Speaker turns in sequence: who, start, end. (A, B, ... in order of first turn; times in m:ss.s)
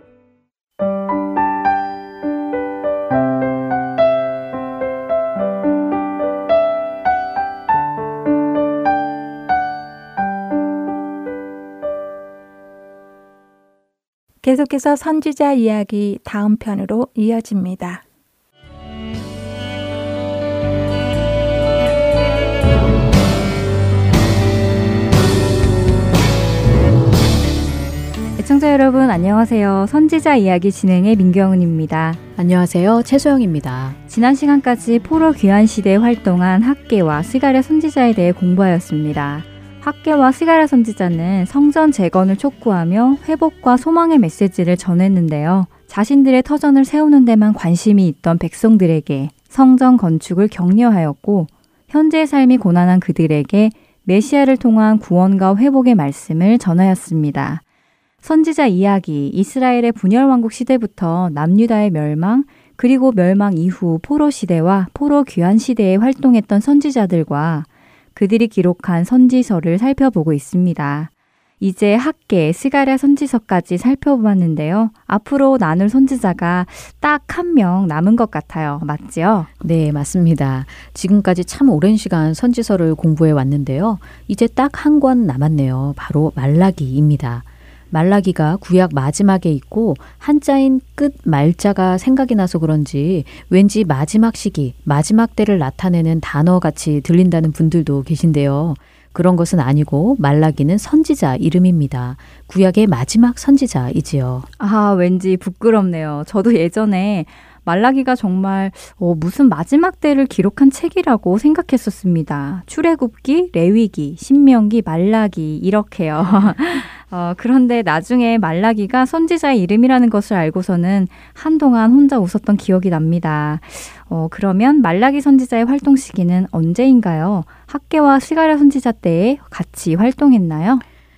0:14.4-0:18.0 A
0:28.4-0:32.2 B
0:32.4-0:34.0 C
0:34.1-0:57.6 B
0:58.2-1:19.5 B
1:19.6-1:44.5 C
1:44.6-2:10.8 B